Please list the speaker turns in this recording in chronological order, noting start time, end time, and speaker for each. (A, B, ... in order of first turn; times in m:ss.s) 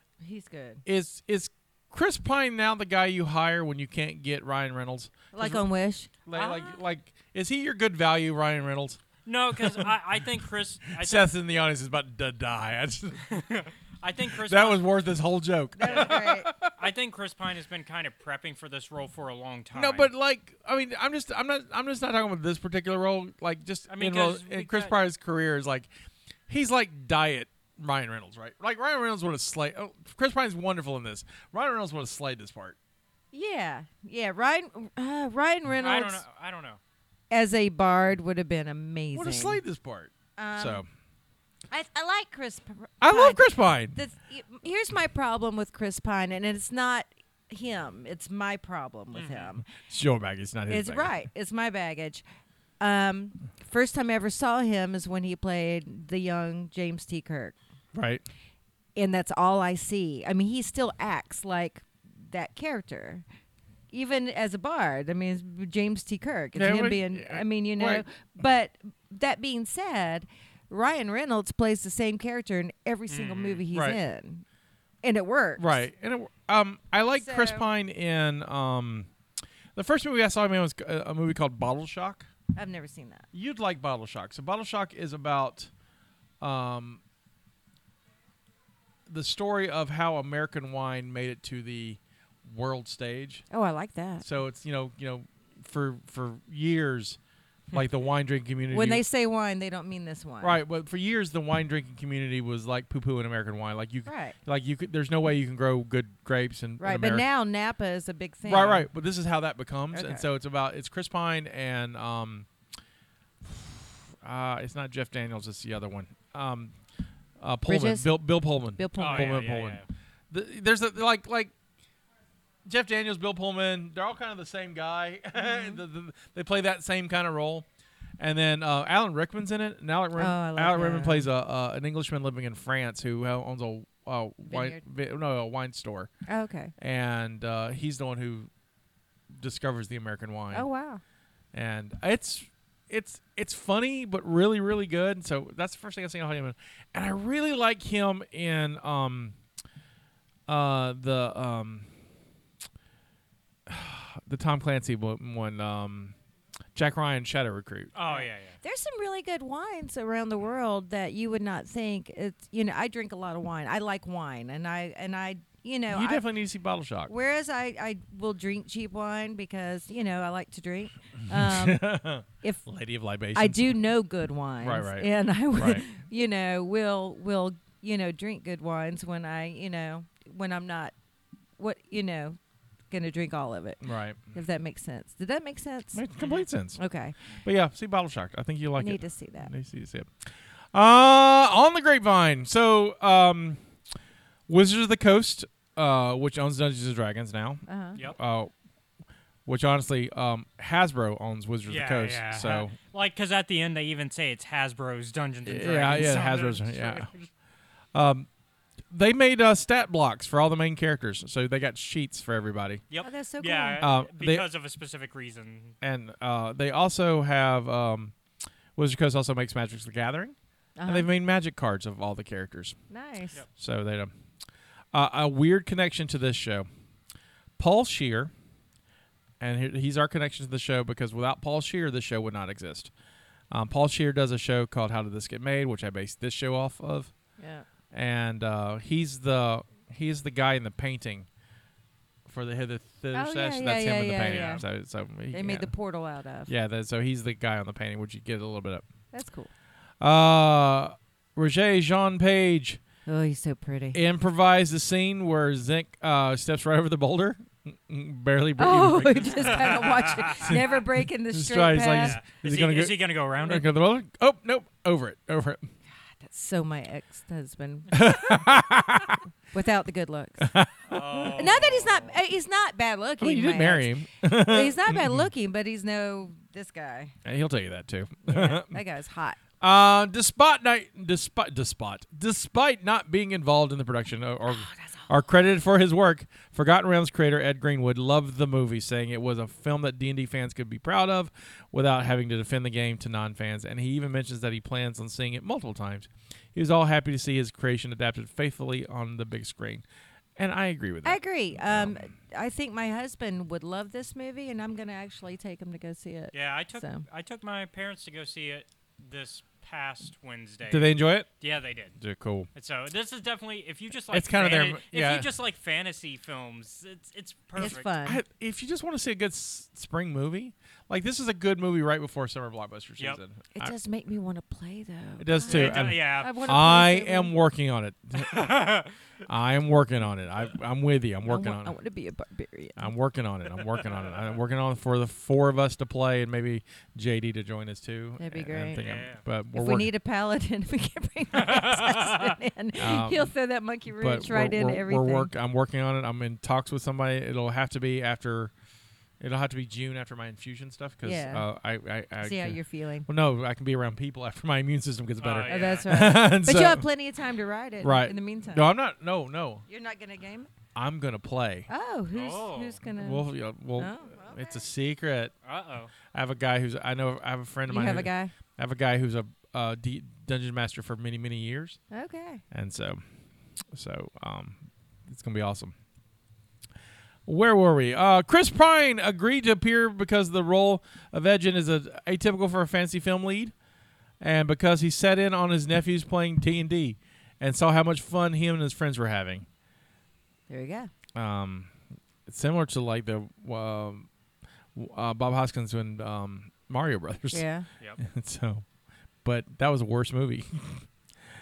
0:00.2-0:00.8 A
0:00.9-0:05.7 B
0:05.3-0:06.1 A
0:06.2-0:09.0 B
0:06.4-0:06.8 C
0:09.3-0:11.3 C
0:09.5-0:09.9 B
0:10.9-0:13.3 B
0:13.2-0:14.9 C
0:14.4-0:16.8 B
0:15.8-0:16.5 A
0:15.9-0:20.1 C
0:19.7-0:25.9 B
0:23.9-0:25.0 C
0:26.5-0:32.8 B
0:33.3-0:36.2 A
0:35.8-0:36.8 C
0:37.3-0:39.6 A
0:39.1-0:40.9 B
0:40.4-0:40.8 A
0:41.7-0:49.6 A
0:43.0-0:44.0 B
0:49.1-0:49.5 C
0:49.7-0:51.1 B
0:50.7-0:52.2 A
0:52.8-0:57.6 A
0:57.9-0:58.2 B
0:59.0-1:03.2 A
1:03.9-1:14.4 A
1:06.6-1:08.0 B
1:13.1-1:13.6 C
1:13.7-1:14.0 B
1:15.0-1:15.9 A
1:15.6-1:19.1 B
1:17.1-1:17.7 A
1:19.8-1:22.3 B
1:22.6-1:23.3 A
1:23.3-1:25.7 B
1:26.4-1:27.0 B
1:29.1-1:33.5 B
1:33.5-1:34.3 A
1:34.2-1:37.2 B
1:37.7-1:39.0 B
1:38.7-1:40.6 A
1:40.4-1:47.2 B
1:44.1-1:44.4 A
1:46.8-1:48.9 A
1:48.5-1:52.5 B
1:49.9-1:50.3 A
1:53.4-1:56.7 B
1:57.4-2:01.5 B
1:57.7-1:58.1 A
1:58.8-1:59.4 A
1:59.0-1:59.9 C
2:02.6-2:07.7 B
2:05.4-2:05.8 A
2:08.2-2:16.1 B
2:10.2-2:11.3 A
2:14.5-2:14.8 A
2:16.3-2:16.7 A
2:16.8-2:18.5 B
2:19.3-2:20.7 B
2:20.5-2:21.0 A
2:21.5-2:29.4 B
2:30.5-2:31.9 B
2:33.7-2:36.2 B
2:36.8-2:37.9 B
2:38.0-2:38.6 C
2:38.1-2:46.2 A
2:45.9-2:47.1 B
2:47.1-2:51.9 A
2:51.3-2:53.8 B
2:53.3-3:00.9 A
2:54.6-2:55.8 B
3:01.6-3:02.4 A
3:02.9-3:03.8 A
3:03.8-3:04.2 B
3:04.3-3:06.0 A
3:05.9-3:06.8 B
3:06.2-3:06.5 C
3:06.8-3:07.2 A
3:07.4-3:10.1 B
3:08.8-3:09.5 A
3:10.7-3:13.6 B
3:14.5-3:18.5 B
3:17.7-3:18.0 A
3:19.5-3:22.8 B
3:21.7-3:27.3 C
3:25.4-3:27.1 B
3:27.9-3:28.3 B
3:28.9-3:32.8 B
3:32.9-3:35.8 C
3:33.0-3:33.8 A
3:33.8-3:34.5 B
3:35.8-3:38.1 B
3:38.8-3:42.8 B
3:40.8-3:41.1 A
3:42.9-3:43.4 A
3:43.6-3:44.1 B
3:44.9-3:46.7 B
3:47.6-3:48.3 B
3:49.4-3:52.9 B
3:53.5-3:57.1 B
3:57.4-3:57.7 A
3:57.9-4:01.3 B
4:02.3-4:05.7 B
4:03.1-4:04.6 A
4:04.3-4:04.6 C
4:05.3-4:06.5 A
4:06.5-4:08.8 B
4:09.1-4:09.5 A
4:10.0-4:12.8 B
4:13.1-4:14.0 A
4:13.9-4:25.7 B
4:18.6-4:22.2 A
4:19.5-4:20.6 C
4:22.0-4:23.7 C
4:26.2-4:28.5 A
4:27.9-4:29.2 B
4:29.5-4:30.5 A
4:30.4-4:31.3 B
4:30.9-4:32.2 C
4:31.3-4:37.2 A
4:33.2-4:35.3 B
4:37.2-4:38.8 B
4:38.3-4:39.4 A
4:39.6-4:59.8 B
4:44.5-4:45.1 A
5:00.4-5:02.0 B
5:01.0-5:07.0 A
5:06.3-5:12.0 C
5:10.7-5:11.3 B
5:12.0-5:12.5 B
5:12.6-5:17.9 C
5:14.1-5:15.3 B
5:17.6-5:18.2 A
5:18.0-5:23.7 B
5:23.6-5:27.4 A
5:25.2-5:31.7 B
5:25.5-5:26.4 C
5:28.2-5:28.9 C
5:31.2-5:32.9 A
5:32.8-5:39.9 B
5:38.2-5:38.8 A
5:38.8-5:39.2 C
5:39.5-5:45.3 A
5:41.3-5:42.3 C
5:42.8-5:43.3 B
5:44.0-5:48.5 B
5:49.2-5:56.8 B
5:51.0-5:51.5 A
5:52.2-5:53.1 A
5:55.2-5:55.9 C
5:55.5-5:58.7 A
5:57.8-5:59.6 B
5:59.7-6:00.5 A
6:00.8-6:01.7 B
6:01.7-6:04.7 A
6:02.1-6:02.8 C
6:02.9-6:05.3 B
6:05.4-6:05.9 C
6:06.1-6:11.8 B
6:07.7-6:08.3 A
6:11.9-6:12.4 A
6:12.5-6:13.0 B
6:13.7-6:15.8 B
6:17.3-6:23.5 B
6:24.2-6:29.5 B
6:30.5-6:30.9 A
6:31.2-6:31.7 B
6:32.3-6:34.1 B
6:34.8-6:37.4 B
6:37.3-6:37.7 A
6:38.0-6:38.6 B
6:39.2-6:40.9 B